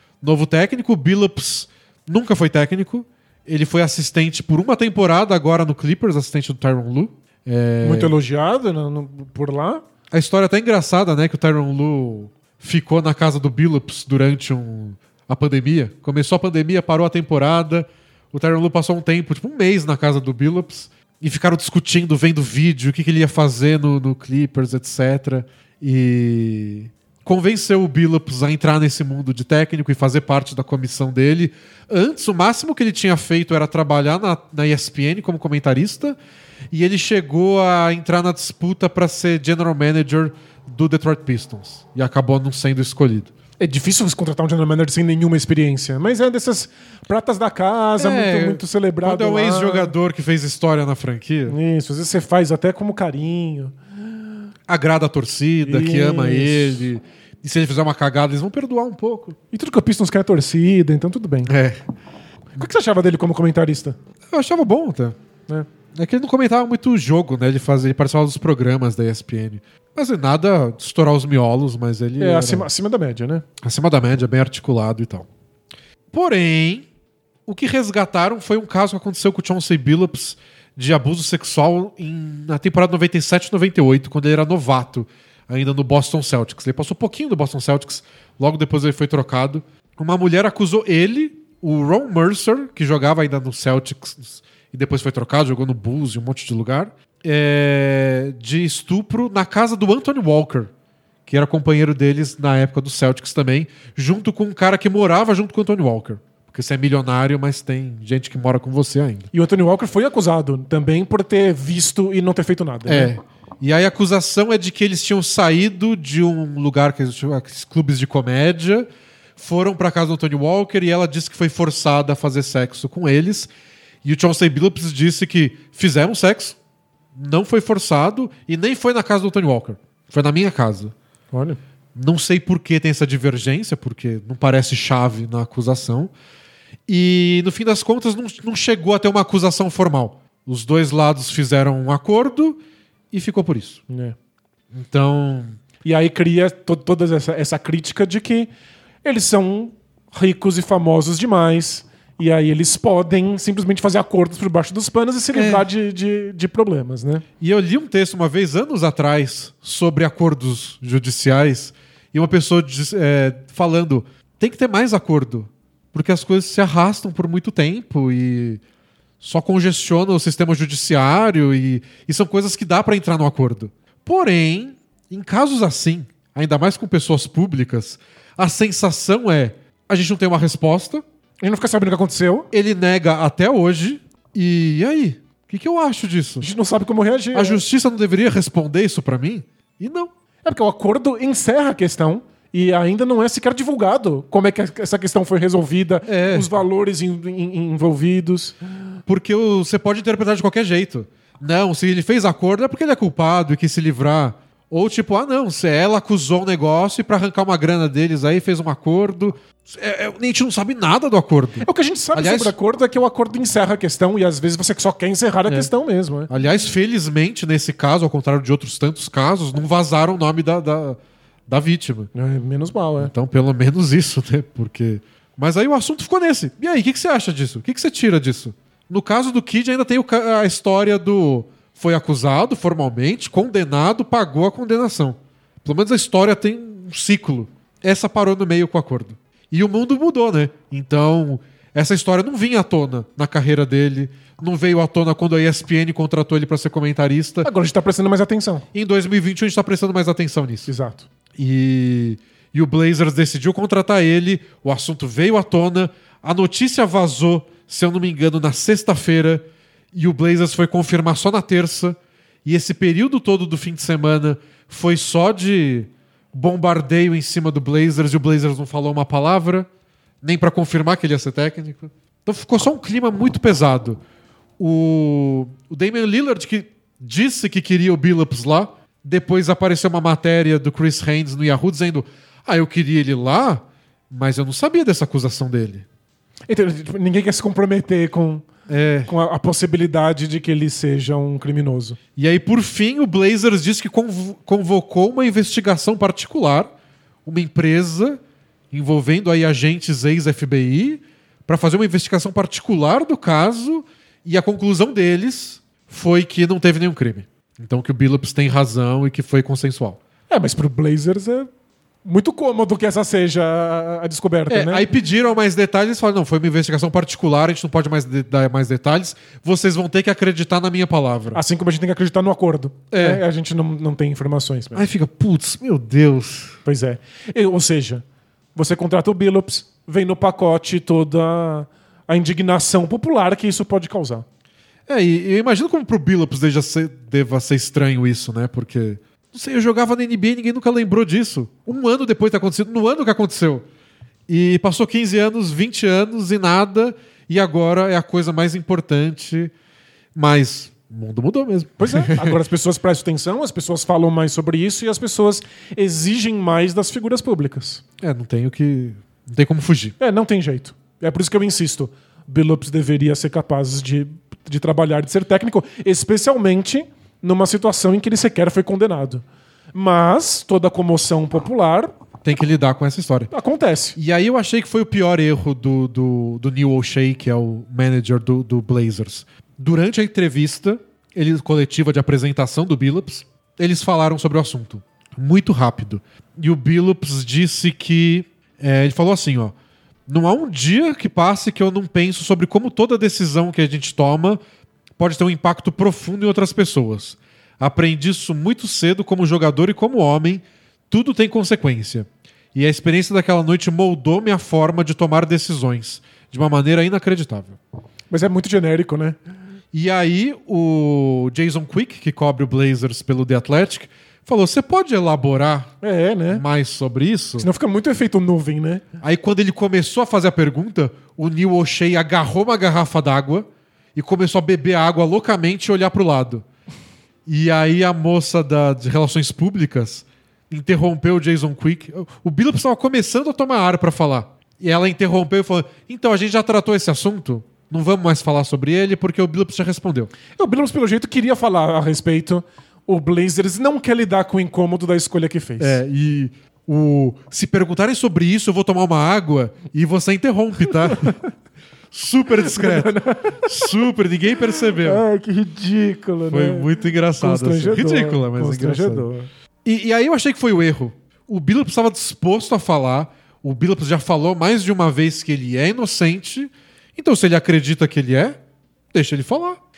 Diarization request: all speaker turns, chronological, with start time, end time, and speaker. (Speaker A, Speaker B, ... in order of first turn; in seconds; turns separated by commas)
Speaker A: 0.2-8.1, Speaker B: 7.8-9.8, Speaker A: 10.1-36.2, Speaker A: 36.7-43.3, Speaker B: 43.6-50.0, Speaker A: 48.0-51.6, Speaker B: 51.5-53.8, Speaker A: 54.7-59.4, Speaker B: 55.6-56.9, Speaker B: 59.5-61.5, Speaker A: 61.5-61.8, Speaker B: 62.6-64.0, Speaker A: 64.3-65.2, Speaker A: 65.9-72.7, Speaker B: 72.2-73.5, Speaker A: 73.6-75.3, Speaker A: 76.1-76.9, Speaker A: 77.5-100.7, Speaker A: 101.3-109.3, Speaker B: 109.3-113.1, Speaker A: 112.9-123.5, Speaker A: 124.0-126.6, Speaker A: 127.2-130.9, Speaker B: 131.3-131.6, Speaker A: 131.9-136.1, Speaker A: 136.9-142.6, Speaker A: 143.1-143.8, Speaker B: 143.9-144.2, Speaker A: 144.7-145.6, Speaker B: 145.8-148.5, Speaker B: 149.0-157.2, Speaker A: 155.3-155.7, Speaker A: 157.4-168.6, Speaker A: 169.2-181.0, Speaker B: 181.4-182.5, Speaker A: 182.5-186.5, Speaker B: 186.4-187.6, Speaker A: 187.3-190.1, Speaker B: 190.4-198.6, Speaker A: 196.1-196.5, Speaker A: 199.1-212.5, Speaker B: 211.6-216.3, Speaker A: 216.3-222.1, Speaker B: 222.1-223.1, Speaker A: 223.0-247.5, Speaker B: 247.4-248.7, Speaker A: 248.7-250.7, Speaker B: 250.7-251.1, Speaker A: 251.3-269.7, Speaker A: 270.2-274.0, Speaker A: 274.6-285.9, Speaker B: 286.5-288.5, Speaker A: 288.7-289.1, Speaker B: 289.1-292.0, Speaker A: 292.2-296.7, Speaker A: 297.3-298.2, Speaker A: 298.7-310.0, Speaker B: 310.3-311.5, Speaker B: 312.1-314.9, Speaker A: 314.5-321.4, Speaker B: 321.3-324.9, Speaker A: 322.9-323.2, Speaker A: 324.8-326.6, Speaker B: 326.6-328.0, Speaker B: 328.6-334.2, Speaker A: 334.9-343.7, Speaker A: 344.3-349.5, Speaker A: 350.1-352.4, Speaker B: 351.8-357.8, Speaker A: 358.0-360.0, Speaker B: 360.0-369.2, Speaker B: 369.7-371.9, Speaker A: 372.2-373.3, Speaker B: 373.3-374.0, Speaker A: 374.0-389.5, Speaker A: 390.1-394.4, Speaker A: 395.0-407.6, Speaker B: 408.1-409.2, Speaker A: 409.7-415.7, Speaker B: 415.8-416.4, Speaker A: 416.3-417.5, Speaker B: 417.4-418.8, Speaker A: 419.0-426.4, Speaker A: 427.3-440.1, Speaker B: 440.4-445.8, Speaker A: 445.6-451.2, Speaker A: 451.9-455.0, Speaker B: 452.4-453.7, Speaker B: 454.6-459.3, Speaker A: 456.3-459.1, Speaker A: 459.6-468.4, Speaker A: 468.9-469.6